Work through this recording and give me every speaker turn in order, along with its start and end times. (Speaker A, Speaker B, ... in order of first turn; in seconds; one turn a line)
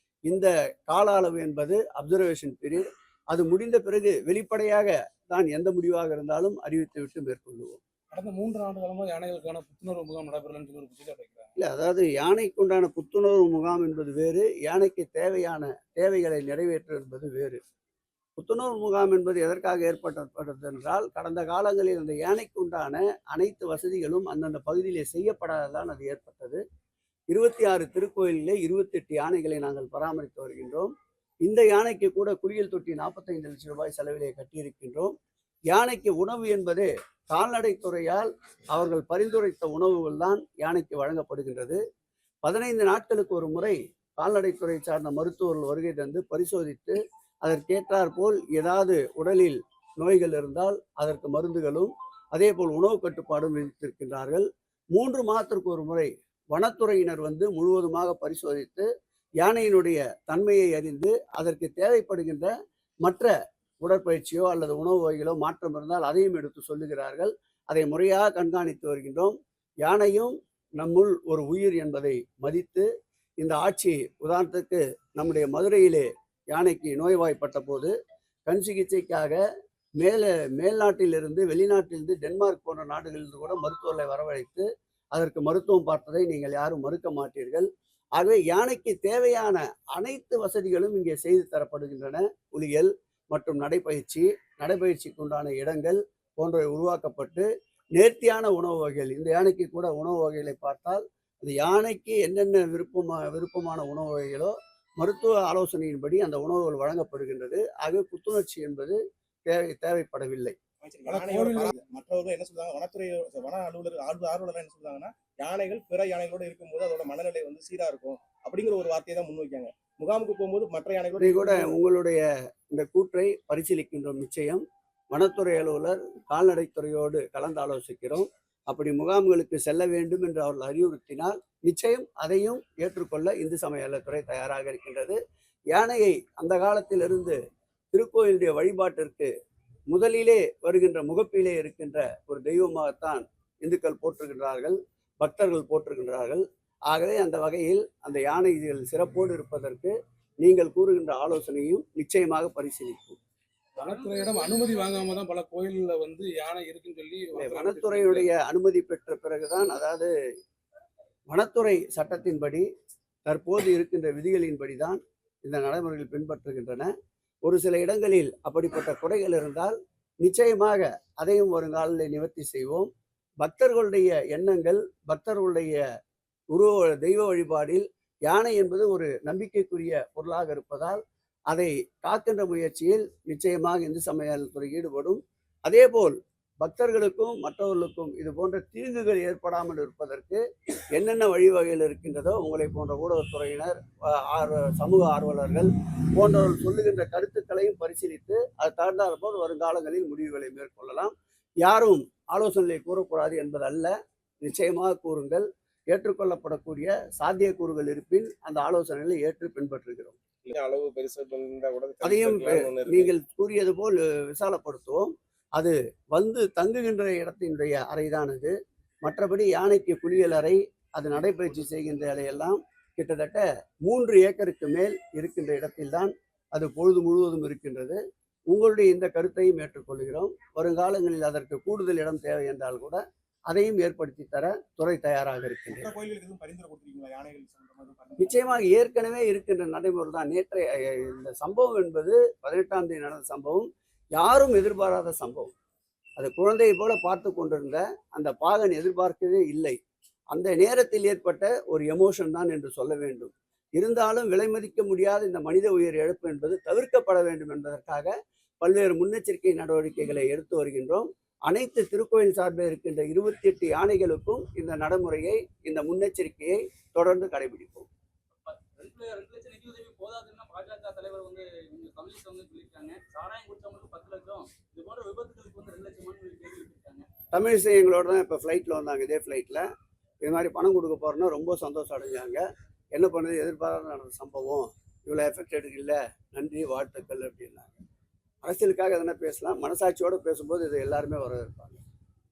Speaker A: 0.3-7.8
Speaker B: 8.1-11.5
Speaker A: 11.6-17.6
Speaker A: 18.4-26.6
Speaker A: 27.3-30.9
Speaker A: 31.4-35.1
Speaker A: 35.7-41.8
Speaker A: 42.4-58.9
Speaker A: 59.4-62.5
Speaker A: 63.0-63.3
Speaker A: 63.8-72.9
Speaker A: 73.4-77.9
Speaker A: 78.5-79.4
Speaker A: 80.0-110.5
Speaker C: 110.8-121.8
Speaker B: 111.1-111.7
Speaker A: 121.2-135.2
Speaker A: 135.7-137.4
Speaker A: 137.9-139.3
Speaker A: 139.9-153.2
Speaker B: 153.8-158.3
Speaker D: 153.9-154.7
Speaker A: 157.3-160.1
Speaker A: 161.3-162.7
Speaker A: 163.3-166.9
Speaker A: 167.4-172.9
Speaker A: 173.4-175.8
Speaker A: 176.5-181.0
Speaker A: 181.5-190.4
Speaker A: 190.9-201.1
Speaker A: 201.6-210.2
Speaker C: 210.4-213.1
Speaker A: 212.0-218.5
Speaker A: 219.0-235.9
Speaker C: 235.7-238.4
Speaker A: 238.2-245.5
Speaker A: 246.2-249.8
Speaker A: 250.3-267.9
Speaker D: 268.4-277.1
Speaker A: 277.3-279.7
Speaker A: 280.2-287.8
Speaker A: 288.4-291.8